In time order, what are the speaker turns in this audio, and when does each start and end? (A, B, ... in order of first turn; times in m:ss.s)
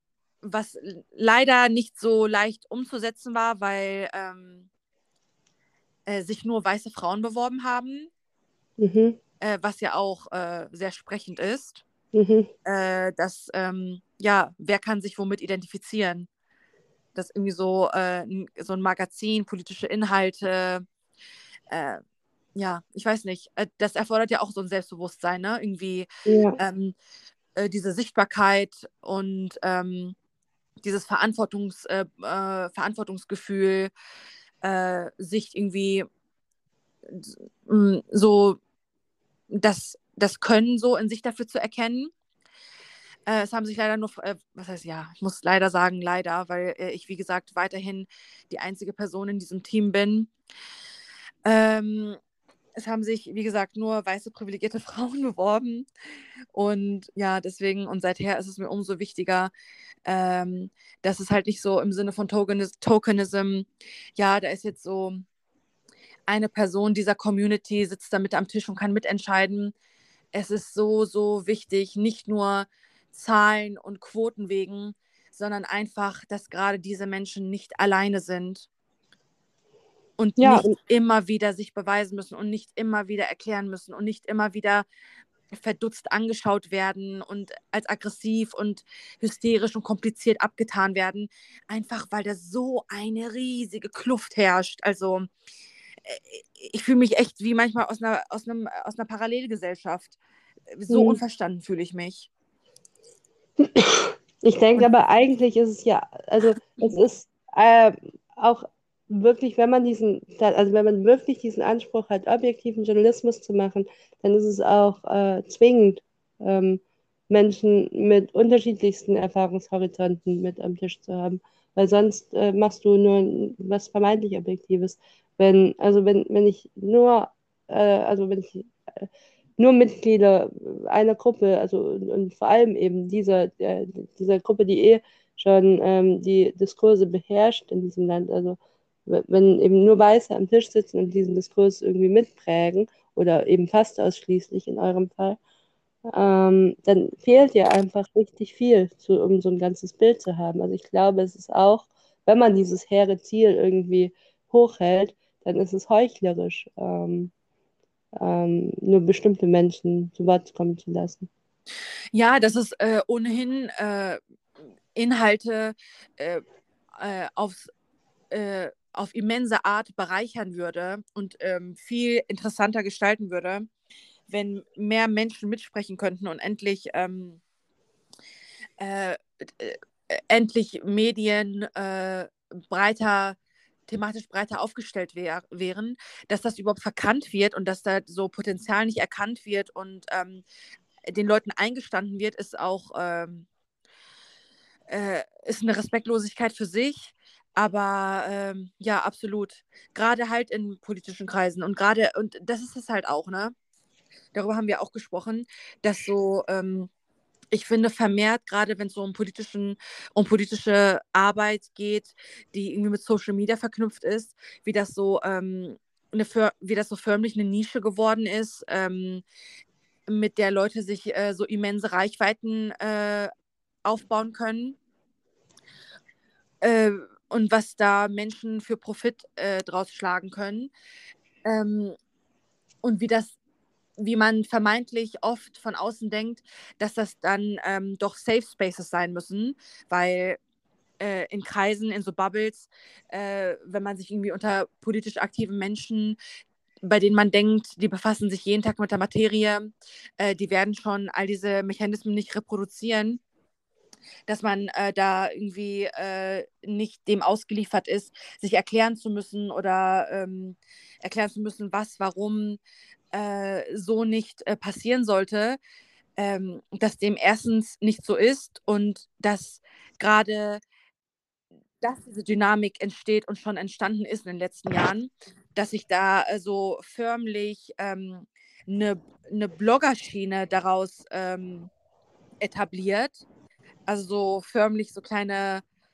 0:00.4-0:04.6 A
0:06.1-0:08.1 A
0:08.8-0:09.2 B
0:09.4-0:11.8 A
0:12.1-0:12.5 B
0:12.6-0:16.3 A
0:17.2-0:20.8 A
0:21.7-0:22.0 A
0:22.6-0:26.0 A
0:26.2-0:26.6 B
0:26.6-0:26.9 A
0:27.6-0:30.2 A
0:30.8-0:33.9 A
0:34.6-0:36.0 A
0:37.1-0:38.6 A
0:39.5-0:42.1 A
0:43.3-0:50.3 A
0:51.4-0:52.2 A
0:52.8-0:55.9 A
0:56.5-0:59.5 A
1:00.0-1:05.2 A
1:06.3-1:09.7 A
1:10.3-1:18.7 A
1:20.2-1:24.8 A
1:20.4-1:20.7 B
1:25.5-1:35.3 A
1:36.0-1:40.2 A
1:40.8-1:42.3 A
1:40.9-1:41.2 B
1:43.6-2:09.0 B
2:09.6-2:25.4 B
2:26.1-2:37.3 B
2:38.2-2:41.3 B
2:42.1-2:44.2 A
2:44.9-2:46.4 A
2:47.0-2:47.7 A
2:48.3-2:53.7 A
2:54.3-2:57.4 A
2:58.8-3:03.4 A
3:03.9-3:10.4 A
3:11.1-3:13.4 A
3:14.9-3:23.5 A
3:24.3-3:26.9 A
3:27.5-3:39.2 A
3:40.1-3:43.3 A
3:43.8-3:44.8 A
3:46.6-3:50.7 A
3:51.4-3:52.0 A
3:52.8-3:53.4 A
3:54.0-4:00.4 A
4:01.0-4:06.2 A
4:06.8-4:13.2 A
4:14.3-4:22.6 A
4:23.1-4:25.6 A
4:26.2-4:30.6 A
4:31.8-4:41.7 A
4:42.4-4:43.2 A
4:43.9-4:45.6 A